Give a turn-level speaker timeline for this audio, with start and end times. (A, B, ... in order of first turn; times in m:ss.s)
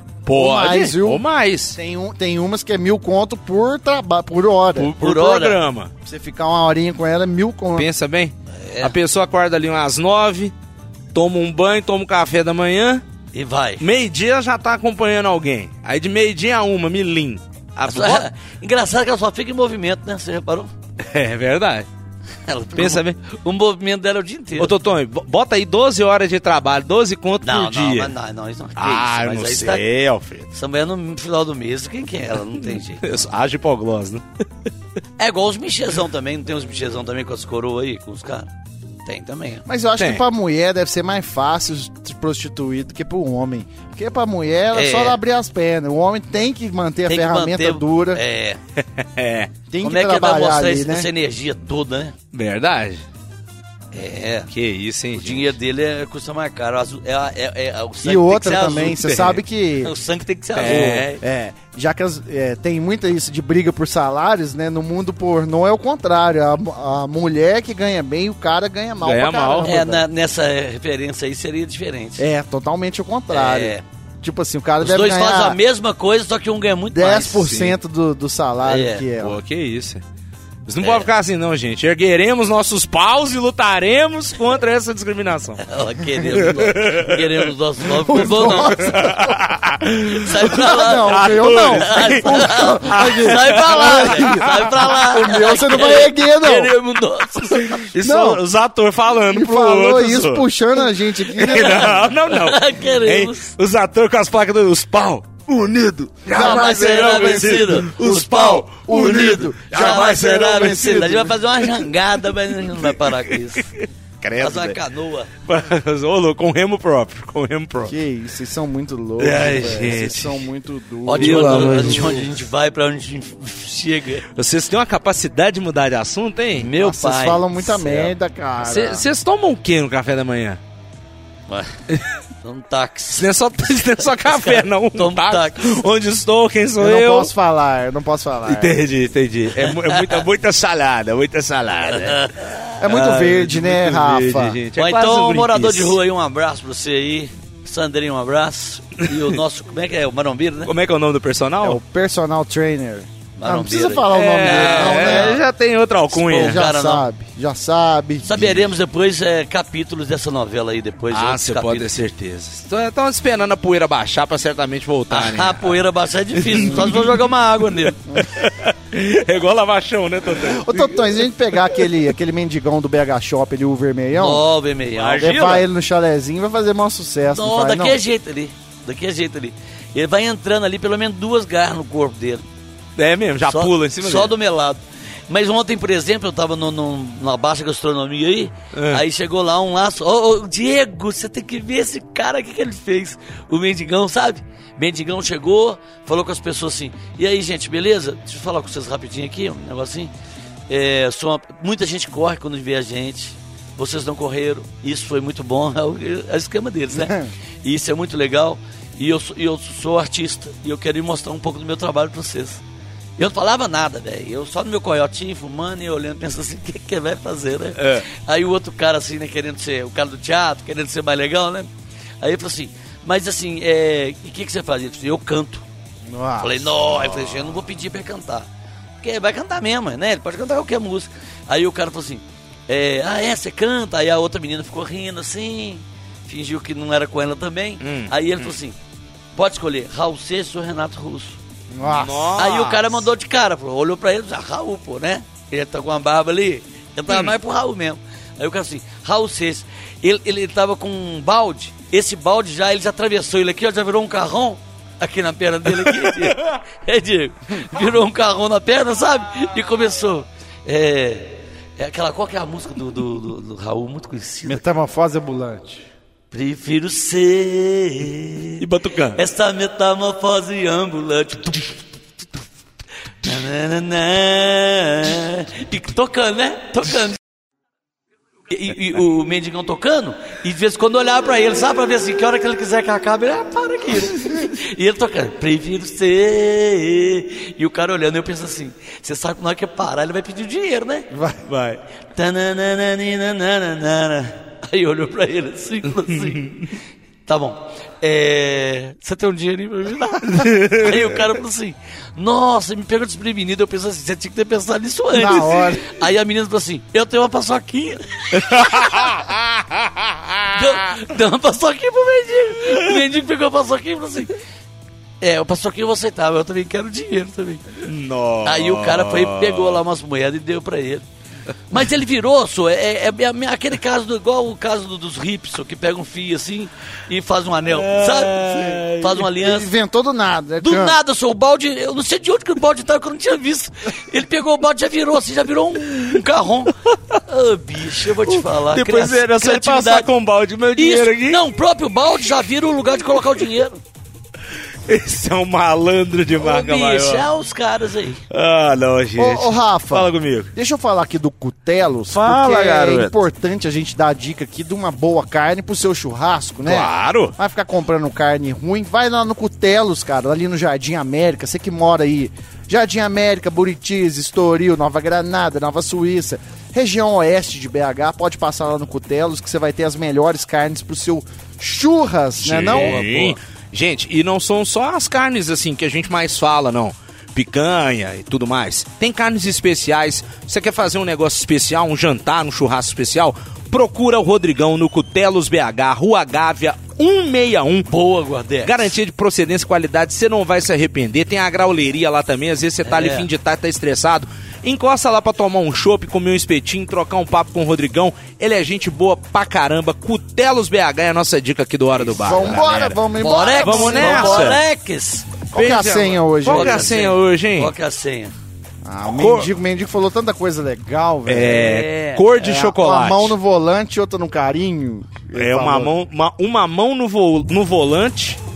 0:00.3-0:01.8 A
0:00.3-0:04.9 B
0:04.8-0:05.9 A
0:04.9-0:05.6 C
0:06.0-0:07.9 B
0:07.8-0:10.5 A
0:08.6-0:09.0 C
0:11.1-0:13.0 A
0:13.3-0:13.9 C
0:13.8-0:18.3 A
0:17.8-0:20.7 C
0:21.0-0:21.9 A
0:22.5-0:24.7 C
0:22.8-0:23.2 A
0:24.6-0:28.1 A
0:27.4-0:29.8 C
0:28.8-0:30.5 A
0:30.5-0:33.0 C
0:33.0-0:34.2 A
0:35.2-0:38.5 C
0:39.1-0:39.6 C
0:39.7-0:48.2 B
0:40.0-0:40.2 A
0:44.7-0:45.2 C
0:47.1-0:48.6 C
0:48.8-0:49.5 A
0:49.7-0:51.1 B
0:49.8-0:52.2 C
0:52.3-0:53.0 A
0:53.9-0:54.5 C
0:54.5-0:55.6 A
0:55.2-0:59.1 C
0:58.0-0:59.9 B
0:58.8-0:59.4 A
0:59.8-1:01.2 C
1:00.6-1:01.2 A
1:00.6-1:10.0 B
1:09.0-1:09.7 A
1:09.6-1:12.2 C
1:12.2-1:15.6 B
1:13.3-1:13.8 C
1:14.8-1:17.5 C
1:16.9-1:19.4 B
1:17.4-1:17.8 A
1:18.6-1:19.1 C
1:19.2-1:20.0 A
1:20.7-1:27.5 A
1:20.8-1:21.1 C
1:25.6-1:29.0 C
1:28.1-1:29.4 B
1:28.1-1:34.7 A
1:30.0-1:37.9 C
1:30.4-1:36.8 B
1:37.6-1:40.5 A
1:38.0-1:38.4 B
1:39.3-1:42.0 B
1:41.3-1:51.9 A
1:41.4-1:43.5 C
1:46.3-1:51.3 B
1:46.3-1:53.7 C
1:52.5-1:54.8 A
1:54.4-1:55.3 C
1:55.4-1:58.0 A
1:57.8-2:02.3 B
1:59.2-2:00.5 A
2:01.1-2:04.3 C
2:01.1-2:02.3 A
2:04.4-2:06.7 A
2:06.6-2:08.1 C
2:06.8-2:09.1 B
2:08.6-2:10.6 A
2:11.5-2:11.8 C
2:12.4-2:13.3 C
2:13.2-2:17.3 A
2:14.2-2:15.8 C
2:16.8-2:18.8 B
2:18.5-2:26.0 A
2:19.6-2:20.2 C
2:21.9-2:22.6 C
2:22.8-2:24.6 B
2:24.8-2:30.7 C
2:30.7-2:31.8 A
2:31.6-2:35.4 B
2:33.4-2:35.4 C
2:34.1-2:36.6 A
2:36.1-2:37.0 C
2:36.3-2:38.7 B
2:38.2-2:42.0 C
2:41.1-2:45.8 A
2:45.1-2:48.1 C
2:46.4-2:47.1 A
2:48.2-2:51.1 A
2:50.4-2:54.4 B
2:54.1-2:55.4 C
2:55.0-2:55.7 A
2:55.2-2:58.0 B
2:57.3-3:02.4 C
3:03.0-3:04.3 A
3:03.5-3:20.1 C
3:08.7-3:09.0 A
3:20.7-3:32.6 C
3:27.0-3:27.3 B
3:33.2-3:45.6 C
3:37.8-3:38.1 A
3:46.1-3:46.7 B
3:46.4-3:48.5 C
3:49.0-3:58.8 C
3:57.8-3:58.4 A
3:59.4-4:01.4 C
4:01.7-4:02.3 B
4:01.8-4:03.0 A
4:02.4-4:24.6 C
4:15.8-4:16.5 A
4:24.5-4:25.9 B
4:26.3-4:28.6 C
4:28.6-4:29.2 A
4:29.2-4:31.8 C
4:33.2-4:37.2 C
4:38.5-4:51.1 C
4:51.1-4:51.4 B
4:51.4-4:51.8 A
4:52.2-4:56.6 C
4:56.2-4:56.7 A
4:57.3-5:09.2 C
5:00.2-5:01.2 A
5:05.1-5:05.9 B
5:08.3-5:11.0 A
5:10.5-5:14.3 C
5:15.2-5:17.8 C
5:17.8-5:19.8 A
5:18.4-5:21.0 C
5:21.7-5:29.7 C
5:27.7-5:29.3 A
5:29.4-5:31.0 B
5:30.6-5:40.1 C
5:36.9-5:37.2 A
5:38.3-5:41.5 A
5:40.8-5:43.8 C
5:44.9-5:47.3 A
5:46.4-5:48.2 C
5:48.3-5:50.5 A
5:49.2-6:13.0 B
5:52.1-5:53.2 A
5:56.6-5:57.4 A
6:12.4-6:27.9 A
6:12.6-6:13.4 C
6:27.9-6:28.9 C
6:28.6-6:44.6 A
6:32.8-6:33.3 C
6:42.0-6:45.3 C
6:42.2-6:44.6 B
6:45.5-6:46.9 B
6:45.5-6:47.7 A
6:46.5-6:48.3 C
6:48.8-6:51.7 B
6:49.2-6:49.5 A
6:51.3-6:53.4 A
6:51.4-6:52.2 C
6:52.4-6:55.9 B
6:55.4-6:58.4 A